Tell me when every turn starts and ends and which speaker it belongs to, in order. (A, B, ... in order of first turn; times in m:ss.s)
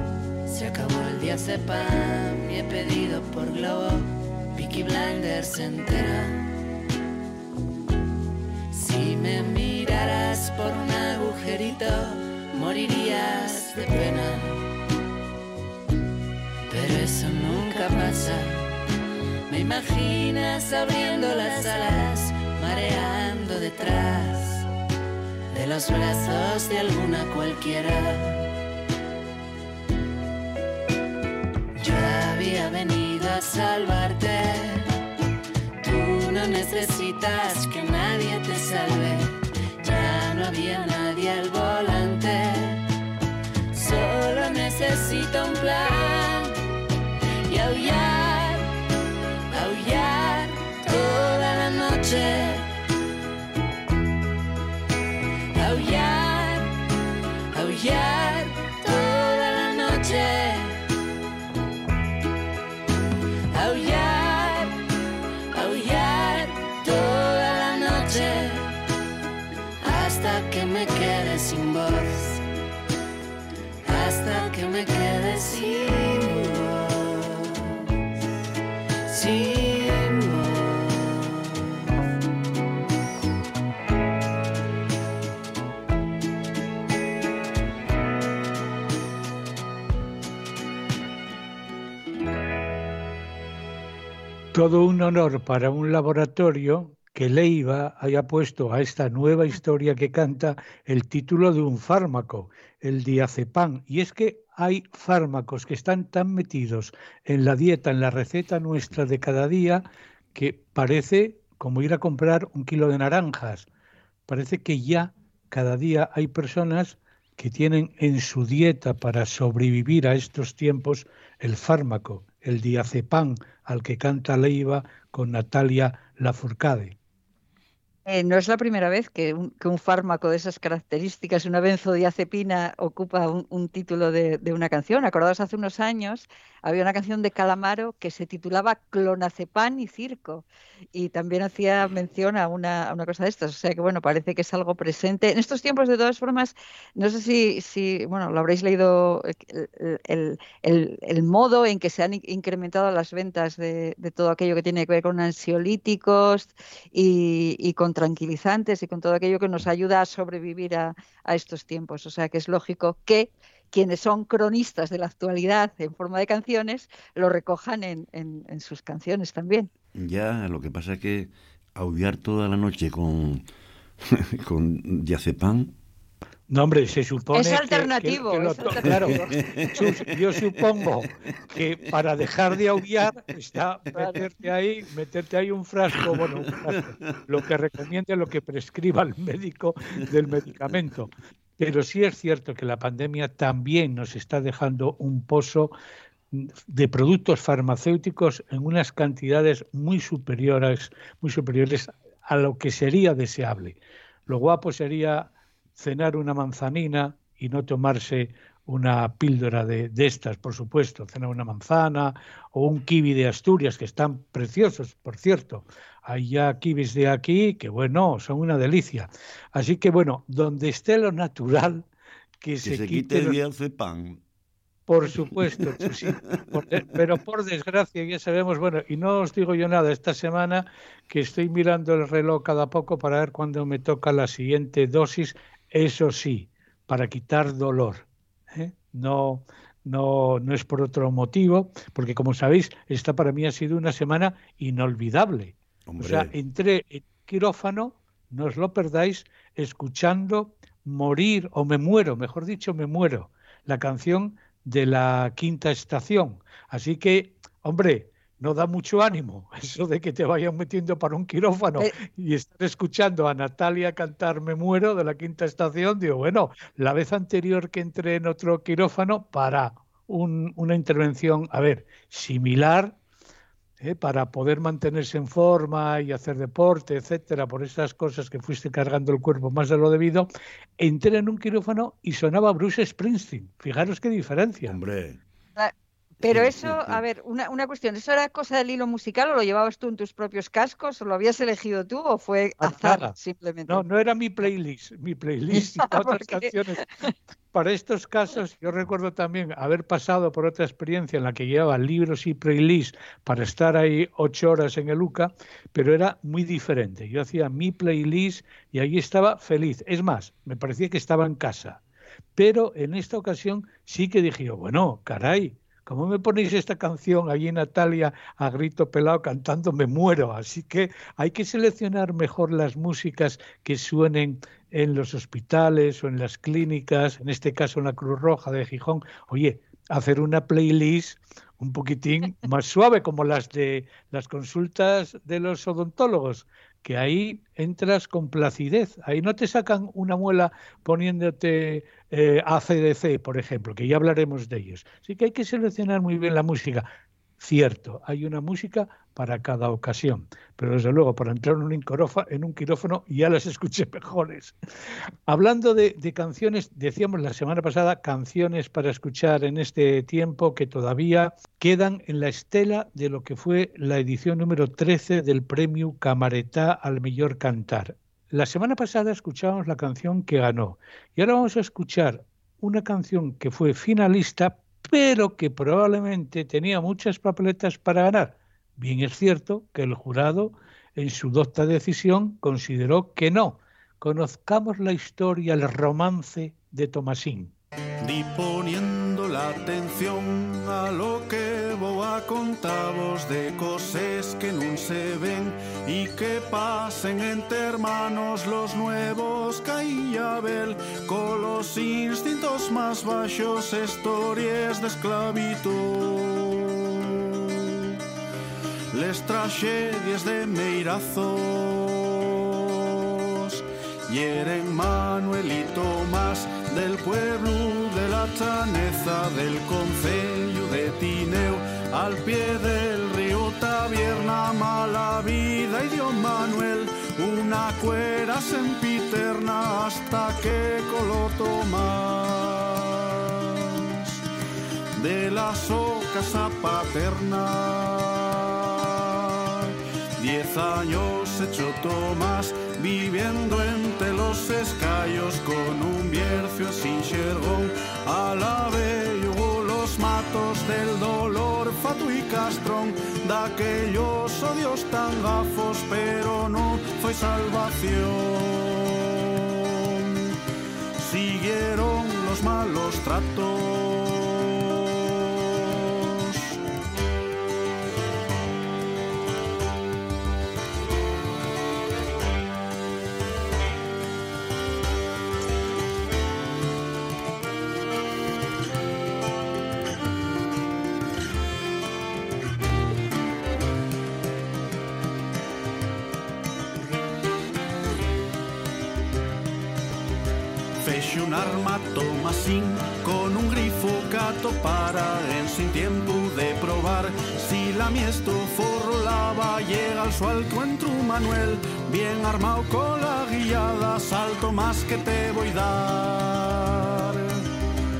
0:00.5-0:06.4 A
0:08.7-0:14.6 A
0:16.7-0:18.7 A
0:19.5-0:24.6 A
0:25.5-0:28.5 A
0:31.8-0:35.0 A
0:35.8-0:42.9 A
0:43.7-0:46.6 A
0:47.5-0:48.7 A
0:49.5-0:52.7 A
0:55.5-0:56.7 A
0:57.5-1:00.8 A
1:03.5-1:04.7 A
1:05.5-1:08.7 A
1:09.8-1:12.4 A
1:13.8-1:17.6 A
1:19.0-1:21.5 A
1:34.5-1:49.8 B
1:50.3-1:53.7 B
1:54.3-2:07.0 B
2:08.0-2:49.7 C
2:49.9-2:53.4 D
2:54.0-2:55.7 D
2:56.5-2:59.2 B
2:57.3-2:59.4 C
2:59.4-3:00.0 D
2:59.7-3:15.7 B
3:16.3-3:41.9 B
3:42.4-3:43.4 B
3:42.6-3:44.2 D
3:44.9-4:33.0 B
3:45.6-3:46.4 D
4:05.8-4:06.3 D
4:33.8-4:44.8 B
4:44.7-4:45.2 D
4:45.6-4:53.8 C
4:46.2-4:47.0 D
4:52.6-4:53.2 B
4:53.7-4:56.8 B
4:55.5-4:56.5 C
4:57.5-5:11.8 B
5:12.4-5:46.8 B
5:47.4-5:54.5 B
5:55.3-6:27.5 B
6:28.0-6:48.0 E
6:48.9-7:14.2 E
7:14.9-7:40.3 E
7:41.0-7:46.6 E
8:10.8-8:27.4 E